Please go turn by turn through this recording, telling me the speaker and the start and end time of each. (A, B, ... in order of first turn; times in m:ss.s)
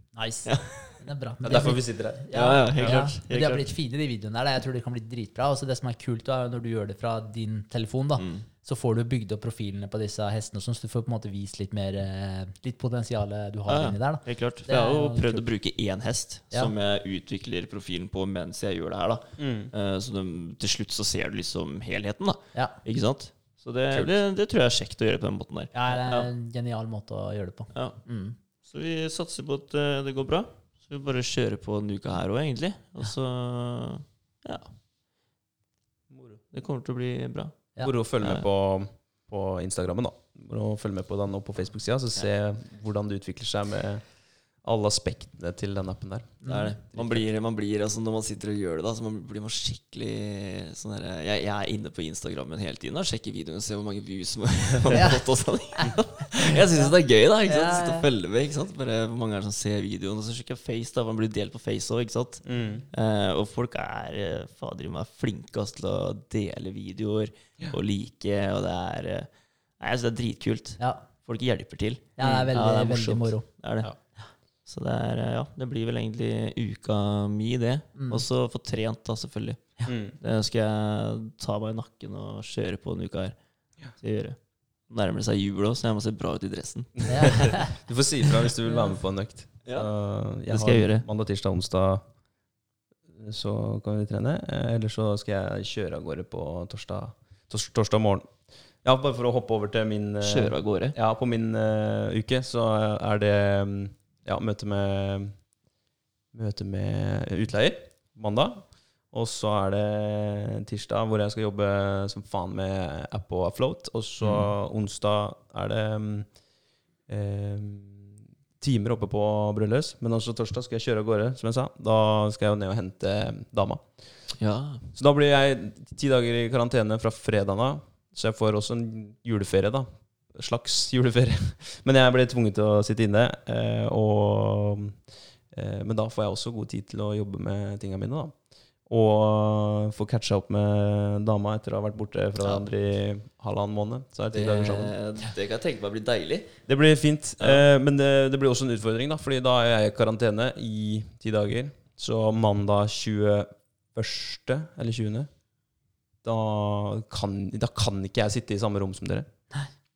0:00.1-0:15.4 A
0:00.4-0:01.0 B
0:01.4-0:03.0 C
0:02.3-0:03.6 B
0:08.2-0:08.4 B
0:13.7-0:26.3 B
0:19.4-0:19.7 C
0:25.7-0:28.4 A
0:27.7-0:28.0 B
0:28.6-0:34.7 B
0:36.5-0:37.6 B
0:37.8-0:47.2 C
0:46.4-0:46.7 A
0:46.4-1:13.9 B
0:57.5-0:58.1 A
1:02.4-1:02.8 C
1:10.8-1:11.0 A
1:12.2-1:13.5 A
1:14.6-1:23.4 B
1:17.9-1:18.2 A
1:19.9-1:20.2 C
1:23.9-1:27.6 B
1:27.0-1:27.7 A
1:27.4-1:32.0 C
1:28.7-1:28.9 A
1:30.5-1:31.0 B
1:33.1-1:45.4 C
1:40.2-1:40.9 B
1:46.3-1:56.4 C
1:54.2-1:54.5 B
1:57.0-2:04.2 C
2:04.4-2:04.9 B
2:04.9-2:25.0 C
2:24.3-2:26.6 B
2:26.7-2:35.3 C
2:36.2-2:39.3 C